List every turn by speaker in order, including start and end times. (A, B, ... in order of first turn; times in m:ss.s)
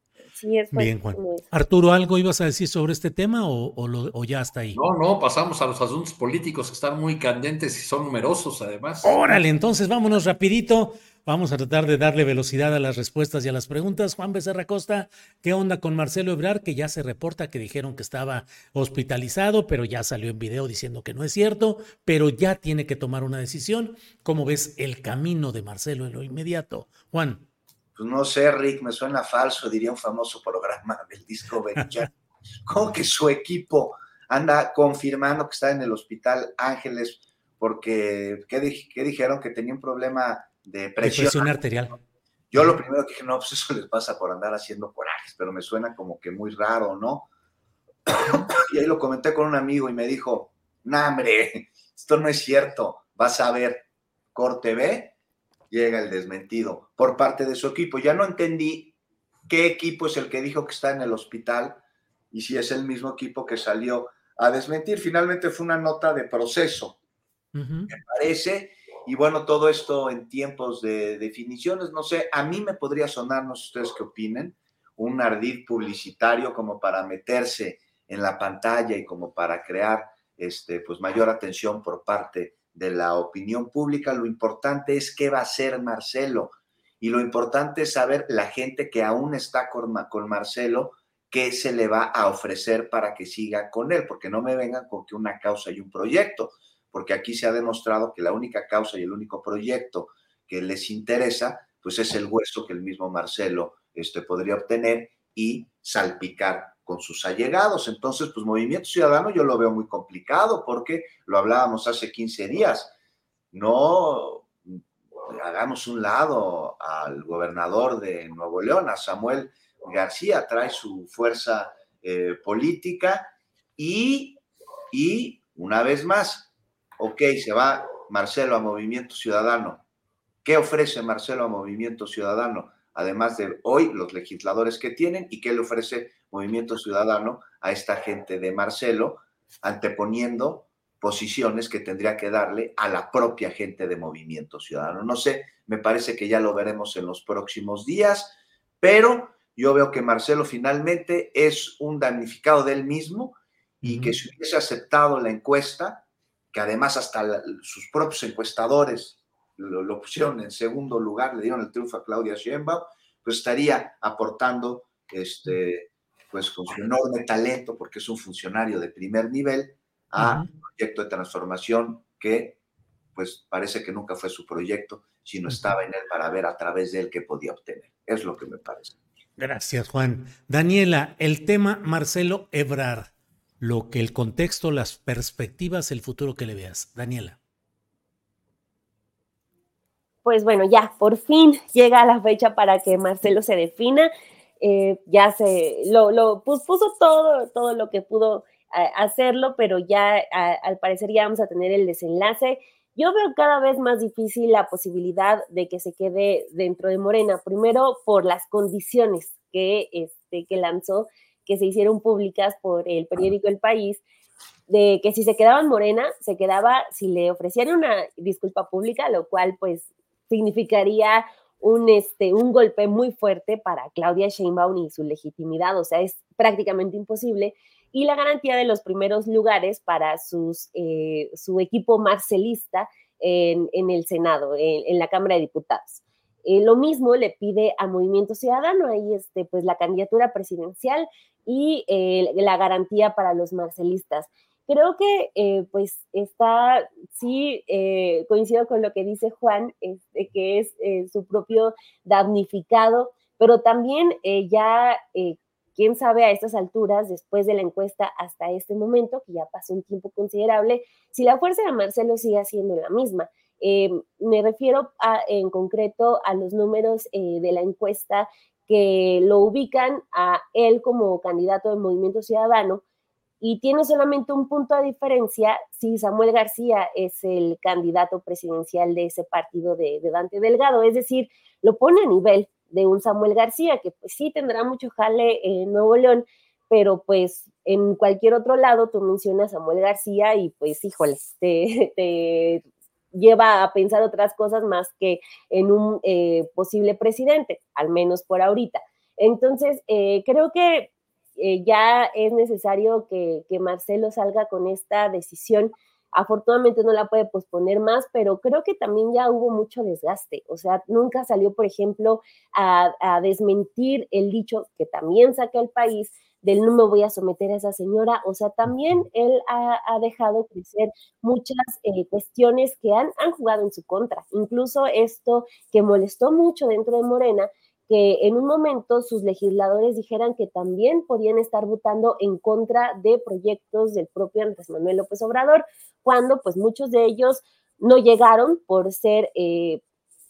0:00.3-0:01.4 A
0:00.7-0:04.8 B
0:04.8-0:09.2 C
0:09.0-0:27.4 B
0:27.9-0:32.1 D
0:32.6-0:41.6 D
0:41.0-0:42.0 B
0:42.5-0:47.3 D
0:48.1-0:55.1 D
0:55.7-0:58.9 D
0:59.5-1:01.8 D
1:02.3-1:07.0 D
1:07.5-1:07.9 B
1:07.9-1:52.9 D
1:53.5-2:04.4 D
2:04.9-2:09.8 D
2:10.4-2:52.6 D
2:33.8-2:34.1 B
2:50.2-2:50.5 B
2:53.1-2:58.9 D
2:59.4-3:07.4 B
3:10.2-3:34.0 A
3:34.7-4:32.8 A
4:33.4-5:39.8 A